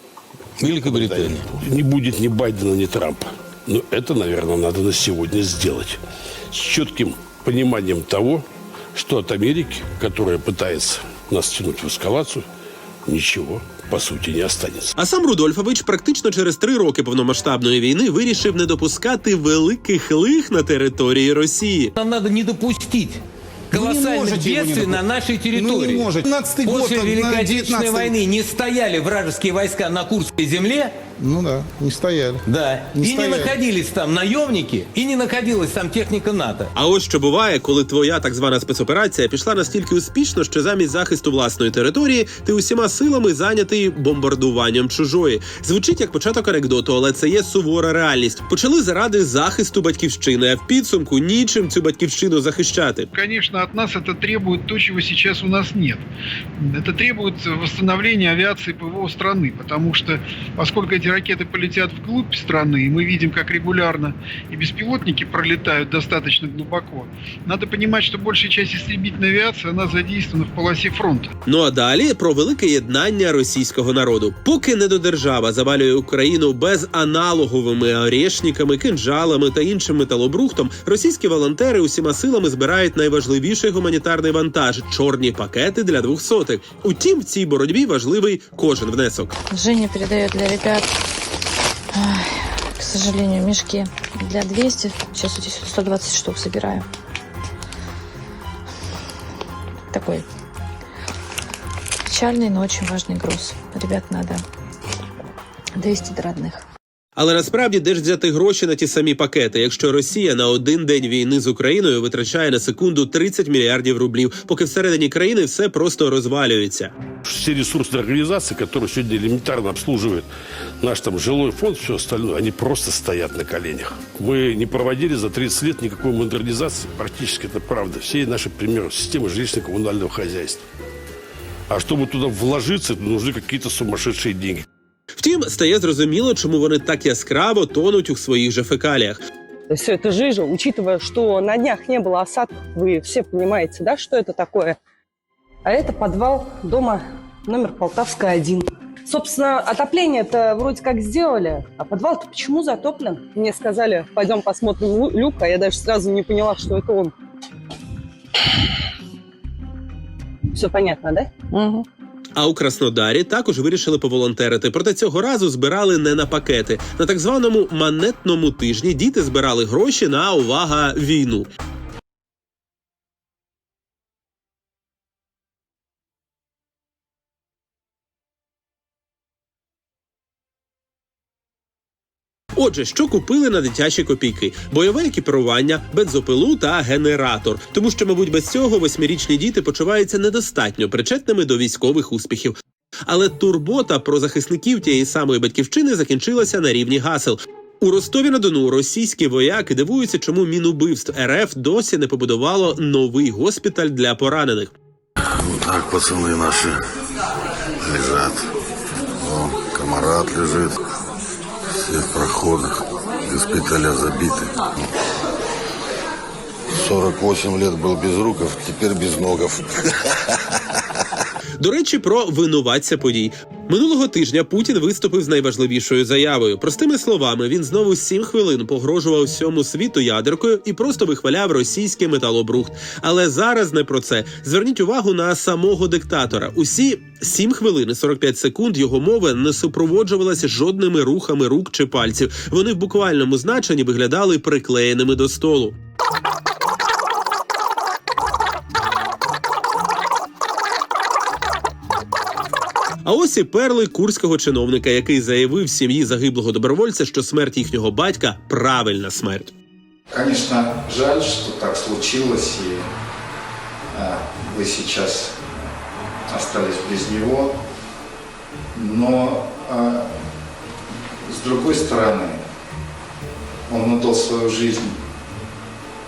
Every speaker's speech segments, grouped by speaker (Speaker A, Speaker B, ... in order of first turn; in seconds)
Speaker A: 0.6-1.4, 22.0-30.9, 32.4-36.7
Speaker B: 0.6-6.0, 6.5-12.4, 13.1-14.9, 117.2-120.3, 120.8-130.6, 131.7-134.6
Speaker C: 15.0-21.9, 36.8-53.1, 71.5-89.4, 107.2-116.9, 135.2-139.2, 162.3-171.5, 182.6-192.5, 193.1-204.7, 221.6-245.8, 253.0-259.5
Speaker D: 23.7-25.0, 25.5-28.2, 31.2-32.4, 32.9-33.5
Speaker E: 53.1-56.0, 56.6-71.3
Speaker F: 89.5-90.9, 91.9-96.8, 99.9-100.2, 102.1-104.4, 105.8-106.6
Speaker G: 139.7-144.8, 145.6-157.1, 160.5-161.6
Speaker H: 205.4-206.8, 207.8-208.5, 209.2-210.8, 211.8-214.5, 216.8-220.1
Speaker I: 260.1-262.9, 263.9-265.5, 266.3-267.6, 268.7-270.1, 271.2-272.4, 273.7-274.9